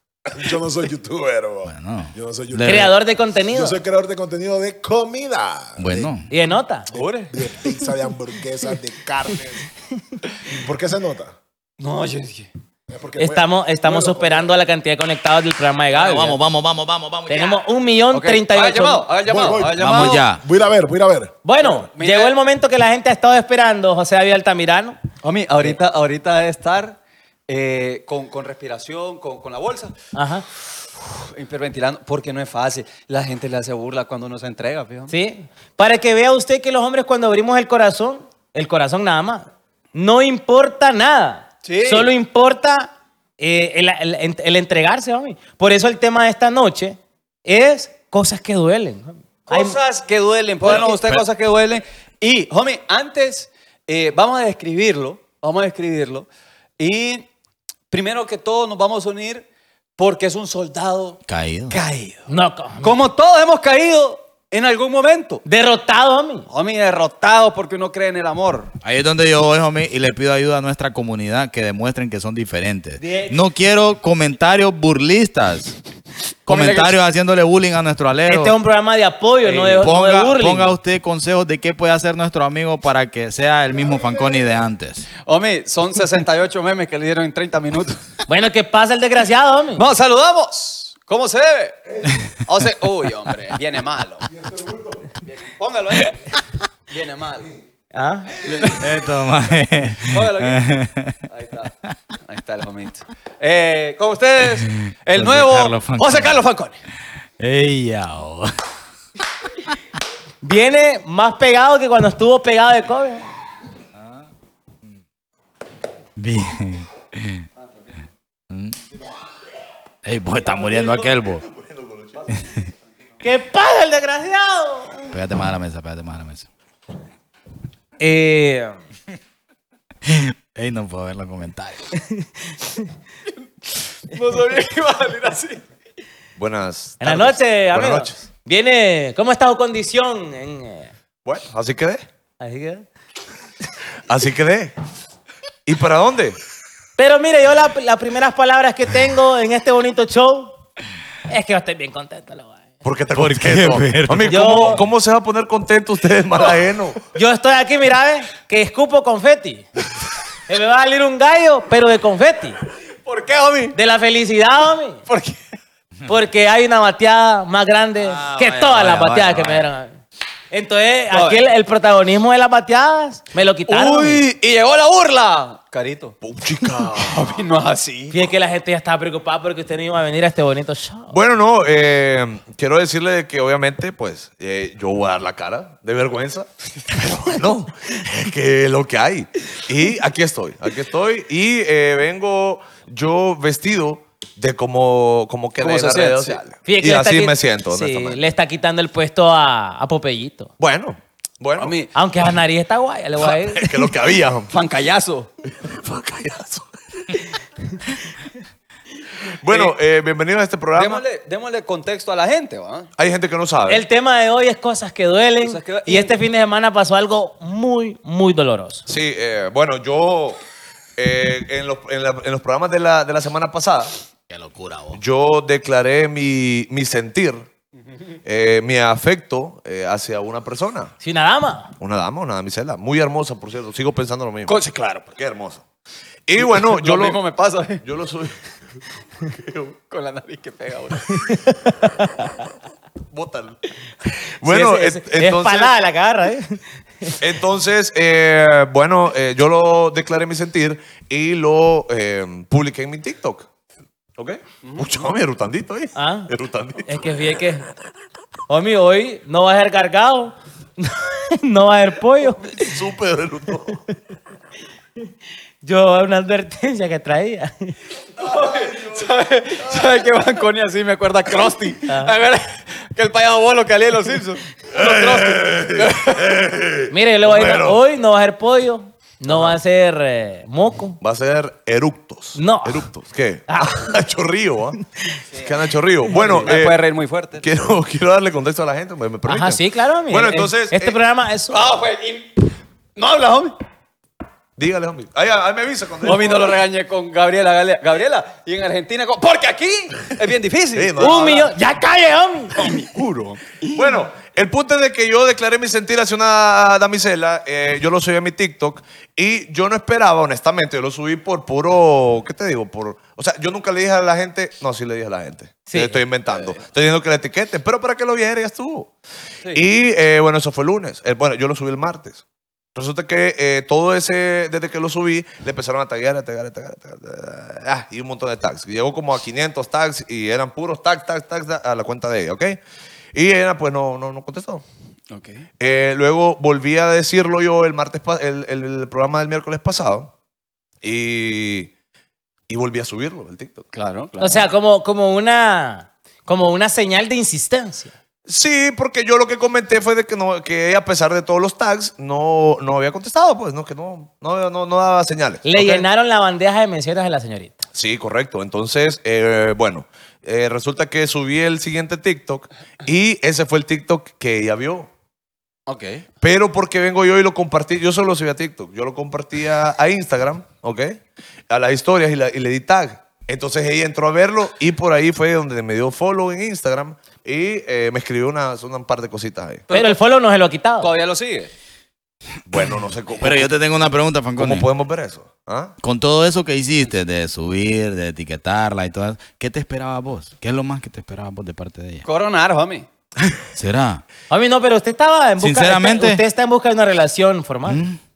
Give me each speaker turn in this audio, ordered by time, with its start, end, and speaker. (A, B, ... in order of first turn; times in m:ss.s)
0:00.3-0:02.9 A
0:01.6-0:02.9 B
0:02.6-0:03.8 C
0:03.5-0:06.1 A
0:05.8-0:06.3 B
0:06.3-0:06.9 C
0:06.9-0:07.3 D
0:06.9-0:09.7 A
0:10.5-0:11.3 A
0:11.8-0:12.5 D
0:12.9-0:14.5 A
0:13.2-0:16.4 C
0:15.9-0:17.6 B
0:17.3-0:19.1 C
0:18.1-0:20.2 D
0:19.3-0:21.9 A
0:19.7-0:20.4 B
0:21.4-0:25.0 C
0:21.9-0:22.4 D
0:25.2-0:27.0 D
0:27.5-0:29.9 D
0:30.1-0:30.4 C
0:31.2-0:35.1 D
0:35.1-0:49.8 C
0:41.6-0:42.1 D
0:49.5-0:56.3 D
0:50.7-0:51.2 B
0:56.8-0:57.3 D
0:57.9-0:59.4 D
1:00.0-1:02.3 D
1:01.3-1:01.8 B
1:02.3-1:02.9 C
1:02.8-1:05.4 D
1:05.4-1:06.5 C
1:06.5-1:08.7 D
1:08.8-1:15.8 B
1:13.0-1:13.4 C
1:16.5-1:18.6 B
1:16.5-1:17.0 D
1:18.3-1:20.7 C
1:19.4-1:19.9 D
1:19.8-1:25.1 B
1:23.9-1:24.3 A
1:25.2-1:28.0 D
1:28.3-1:29.8 C
1:29.8-1:34.3 D
1:34.3-1:35.2 A
1:35.2-1:37.5 D
1:37.9-1:38.4 C
1:38.4-1:38.9 D
1:38.7-1:41.2 B
1:40.0-1:40.6 D
1:41.3-1:46.8 D
1:44.8-1:46.4 B
1:47.4-1:48.5 B
1:50.4-1:53.2 C
1:56.2-1:57.4 B
1:58.5-1:58.8 B
2:00.0-2:01.4 B
2:00.8-2:02.4 E
2:03.2-2:05.2 C
2:05.1-2:06.5 B
2:08.0-2:08.8 C
2:10.1-2:11.9 B
2:14.1-2:15.6 D
2:16.4-2:18.2 E
2:17.0-2:20.9 C
2:21.2-2:22.0 E
2:22.4-2:22.8 C
2:24.1-2:24.7 E
2:25.7-2:26.4 E
2:27.0-2:30.6 C
2:31.3-2:32.6 C
2:32.8-2:37.0 E
2:33.2-2:34.8 B
2:34.3-2:34.8 C
2:37.1-2:39.7 C
2:40.5-2:42.6 C
2:43.0-2:43.8 D
2:43.8-2:45.0 C
2:45.1-2:45.4 D
2:46.1-2:50.0 C
2:48.0-2:49.7 B
2:50.5-2:54.2 C
2:51.1-2:51.4 D
2:53.7-2:56.2 D
2:56.2-2:57.4 E
2:56.9-2:58.2 D
2:58.1-3:01.2 C
3:01.1-3:06.5 E
3:06.9-3:07.4 D
3:07.0-3:18.2 E
3:15.6-3:16.4 D
3:16.7-3:20.5 C
3:20.6-3:21.8 E
3:21.6-3:21.9 D
3:21.9-3:23.9 C
3:23.2-3:24.5 E
3:24.5-3:25.3 D
3:25.5-3:26.7 E
3:29.4-3:31.0 E
3:29.5-3:29.7 D
3:30.7-3:32.9 D
3:33.0-3:33.8 E
3:33.7-3:38.8 C
3:35.4-3:36.2 D
3:38.9-3:40.4 E
3:41.0-3:44.0 E
3:44.3-3:45.0 B
3:44.9-3:47.5 E
3:48.2-3:50.9 E
3:51.0-3:51.7 C
3:51.8-3:55.6 E
3:54.5-3:55.0 D
3:56.3-3:57.2 E
3:56.4-3:57.8 D
3:57.8-3:58.4 E
3:59.2-3:59.8 E
3:59.9-4:01.3 D
4:01.1-4:02.3 C
4:03.1-4:03.6 E
4:04.4-4:05.8 E
4:04.4-4:07.2 C
4:07.2-4:13.5 E
4:14.2-4:17.3 E
4:14.6-4:15.0 D
4:16.0-4:16.3 C
4:16.9-4:17.7 C
4:18.5-4:22.8 C
4:22.6-4:23.8 E
4:25.6-4:27.8 C
4:28.2-4:36.3 D
4:31.9-4:32.1 C
4:34.7-4:37.8 E
4:36.9-4:41.0 C
4:39.3-4:39.6 E
4:41.0-4:44.8 E
4:42.4-4:42.9 C
4:43.5-4:43.8 C
4:45.3-4:46.8 E
4:46.1-4:47.5 D
4:47.4-4:51.0 E
4:49.3-4:51.7 C
4:51.5-4:53.6 D
4:54.6-4:56.6 E
4:56.0-5:01.5 D
5:00.7-5:01.5 E
5:01.0-5:02.7 C
5:02.6-5:03.8 D
5:02.9-5:18.9 E
5:15.7-5:16.0 C
5:19.5-5:22.2 E
5:22.8-5:32.6 E
5:33.1-5:34.6 E
5:35.1-5:35.5 D
5:35.6-5:40.1 E
5:40.8-5:41.7 E
5:42.5-5:43.7 E
5:43.7-5:44.5 D
5:44.2-5:47.9 C
5:48.3-5:55.8 E
5:55.4-5:57.6 C
5:57.7-6:04.9 E
6:05.7-6:06.1 D
6:06.2-6:19.6 E
6:19.7-6:20.0 D
6:19.7-6:20.9 C
6:20.8-6:21.5 D
6:22.5-6:23.5 E
6:23.2-6:24.7 B
6:24.4-6:25.8 E
6:25.8-6:32.1 B
6:32.1-6:32.9 D
6:33.6-6:34.0 B
6:34.3-6:37.8 C
6:35.4-6:36.2 B
6:37.7-6:38.0 B